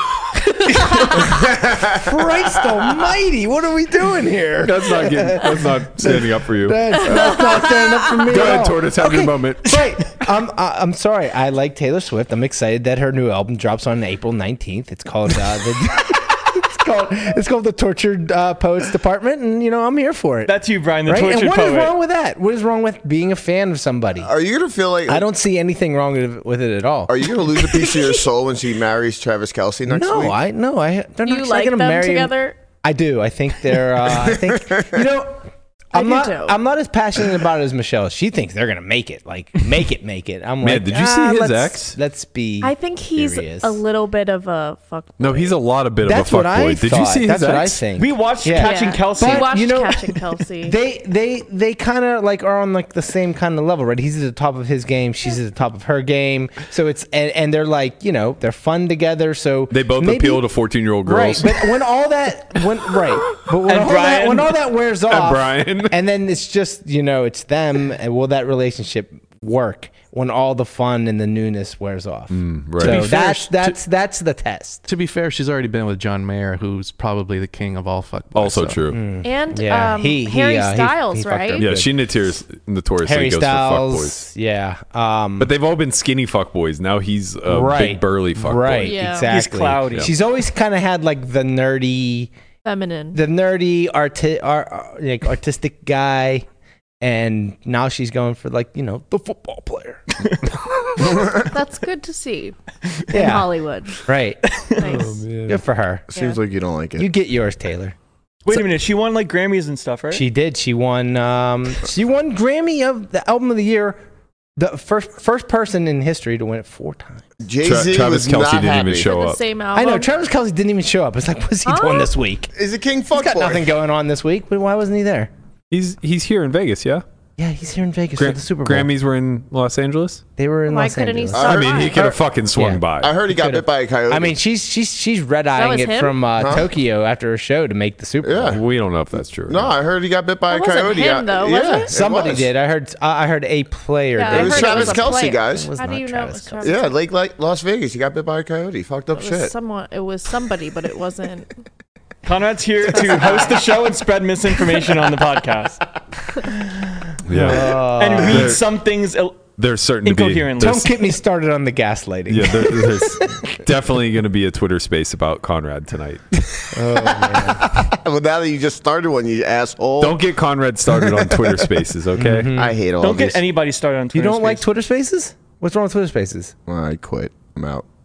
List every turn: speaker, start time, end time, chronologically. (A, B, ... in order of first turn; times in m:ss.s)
0:00.4-0:01.2 A
0:01.2-0:02.1 B
0:01.9-0:20.5 C
0:04.6-0:07.0 D
0:07.0-0:08.2 A
0:07.1-0:07.4 B
0:08.2-0:09.8 D
0:20.4-0:21.9 E
0:21.0-0:24.3 C
0:24.2-0:25.2 B
0:25.1-0:27.9 C
0:27.1-0:30.4 B
0:29.8-0:43.8 C
0:31.2-0:32.5 A
0:34.0-0:35.0 B
0:35.9-0:36.6 A
0:40.6-0:42.0 D
0:42.6-0:45.6 A
0:45.2-0:47.8 D
0:46.0-1:00.4 C
0:48.0-0:49.7 E
0:48.6-0:50.8 A
0:59.7-1:01.7 D
1:01.0-1:14.8 C
1:03.6-1:04.6 E
1:05.1-1:05.9 D
1:12.3-1:13.2 D
1:12.8-1:13.8 F
1:14.8-1:18.9 F
1:18.3-1:19.0 D
1:18.9-1:21.9 C
1:19.2-1:21.7 A
1:21.6-1:24.2 D
1:23.0-1:25.5 C
1:25.4-1:29.0 D
1:27.4-1:32.3 C
1:28.8-1:29.3 A
1:29.3-1:30.1 E
1:32.6-1:33.2 A
1:33.1-1:36.4 C
1:37.0-1:40.0 C
1:41.2-1:42.5 A
1:43.1-1:44.0 A
1:43.1-1:43.5 C
1:44.0-1:44.4 C
1:44.5-1:44.8 E
1:44.7-1:45.2 A
1:44.8-1:45.6 D
1:45.5-1:46.0 C
1:46.1-1:47.1 B
1:47.0-1:47.9 C
1:48.4-1:50.2 E
1:50.1-1:54.0 C
1:54.6-1:57.2 C
1:57.4-1:59.1 B
1:57.6-1:59.4 D
1:59.0-2:00.1 A
1:59.7-2:02.5 C
2:01.6-2:02.1 A
2:02.5-2:03.7 B
2:03.1-2:05.3 C
2:05.7-2:07.0 D
2:07.4-2:08.9 C
2:08.2-2:10.2 D
2:10.4-2:18.6 C
2:10.7-2:12.0 A
2:11.3-2:12.0 B
2:11.4-2:13.2 D
2:13.0-2:14.4 B
2:15.5-2:16.2 A
2:16.4-2:16.7 B
2:18.2-2:18.6 B
2:18.5-2:19.7 D
2:19.5-2:22.5 B
2:20.5-2:21.9 A
2:21.9-2:26.8 C
2:24.2-2:26.9 A
2:24.3-2:25.7 B
2:26.6-2:29.5 B
2:29.1-2:31.5 A
2:32.2-2:35.8 E
2:33.0-2:33.5 A
2:37.2-2:38.6 D
2:37.3-2:38.6 C
2:37.5-2:39.5 E
2:39.6-2:40.8 D
2:40.0-2:40.9 E
2:40.6-2:43.6 C
2:42.3-2:46.2 D
2:46.7-2:47.7 C
2:47.7-2:50.4 B
2:50.0-2:52.5 D
2:50.9-2:51.8 B
2:52.1-2:52.8 C
2:52.5-2:53.4 B
2:53.0-2:54.7 E
2:54.1-2:56.5 C
2:56.7-2:57.8 B